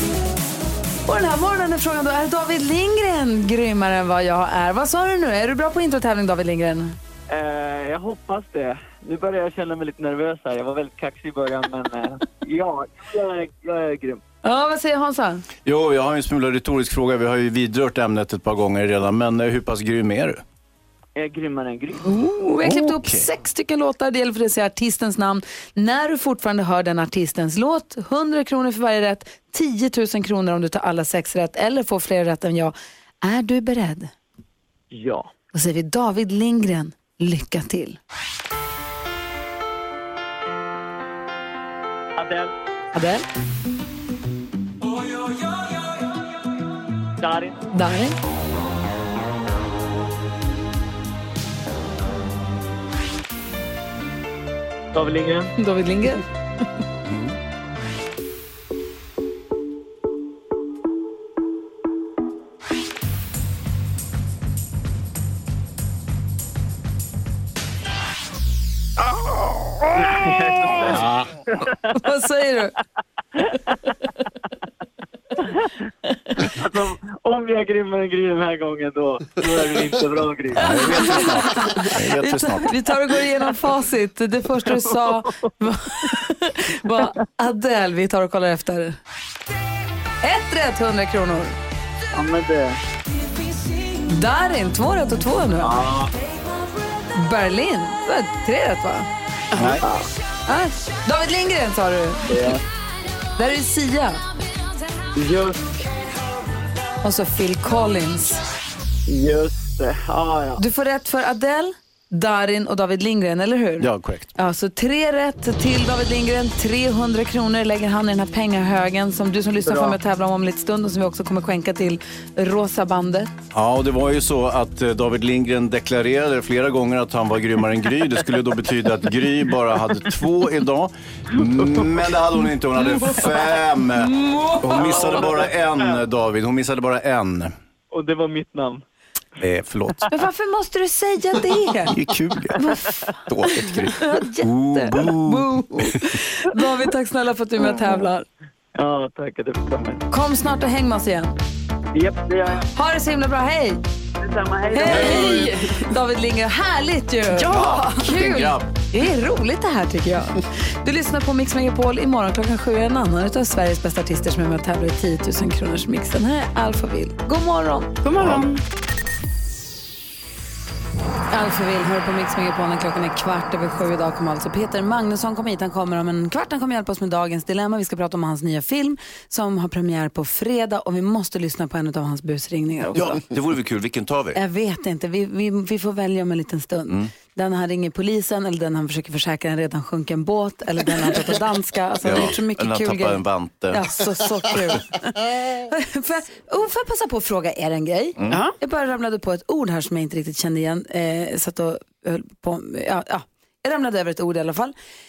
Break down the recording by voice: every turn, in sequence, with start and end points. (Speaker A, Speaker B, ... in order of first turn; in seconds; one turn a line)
Speaker A: 1.1-7.0
Speaker B: 7.3-14.2
Speaker A: 14.4-15.4
Speaker C: 15.7-20.4
Speaker B: 21.2-22.0
Speaker A: 22.0-34.1
Speaker C: 22.6-23.3
Speaker B: 34.9-35.3
Speaker A: 35.5-38.0
Speaker B: 42.2-42.5
Speaker A: 42.9-43.2
Speaker B: 47.2-47.6
Speaker A: 47.7-48.1
Speaker B: 54.9-55.5
Speaker A: 55.6-56.2
Speaker B: 70.0-72.0
Speaker A: 70.7-71.0
Speaker A: 72.0-72.7
Speaker B: 76.4-81.2
Speaker C: 80.5-82.8
Speaker A: 80.7-89.0
Speaker B: 84.9-85.2
Speaker A: 90.2-91.6
Speaker B: 92.1-92.8
Speaker A: 94.1-95.8
Speaker B: 95.6-96.1
Speaker A: 97.2-99.1
Speaker D: 99.5-99.8
Speaker C: 99.6-99.8
Speaker B: 99.8-100.1
Speaker A: 100.5-102.5
Speaker B: 102.3-102.6
Speaker A: 103.4-104.2
Speaker B: 105.2-105.6
Speaker A: 107.0-108.4
Speaker B: 109.1-110.6
Speaker A: 110.6-123.3
Speaker C: 113.8-114.3
Speaker B: 119.6-120.0
Speaker C: 123.5-137.5
Speaker A: 134.0-135.2
Speaker B: 134.8-136.0
Speaker B: 137.9-138.8
Speaker C: 139.4-140.0
Speaker A: 140.1-142.0
Speaker C: 141.9-142.6
Speaker C: 143.2-145.5
Speaker A: 144.0-148.3
Speaker B: 148.8-150.0
Speaker A: 150.1-151.3
Speaker B: 151.9-152.7
Speaker A: 152.8-153.8
Speaker B: 154.2-155.5
Speaker A: 154.7-167.9
Speaker D: 155.2-155.6
Speaker D: 157.4-157.9
Speaker C: 157.5-158.7
Speaker D: 168.0-168.6
Speaker C: 168.2-168.4
Speaker A: 171.3-183.2
Speaker C: 182.9-184.4
Speaker A: 184.3-204.8
Speaker C: 192.0-193.8
Speaker D: 198.3-198.6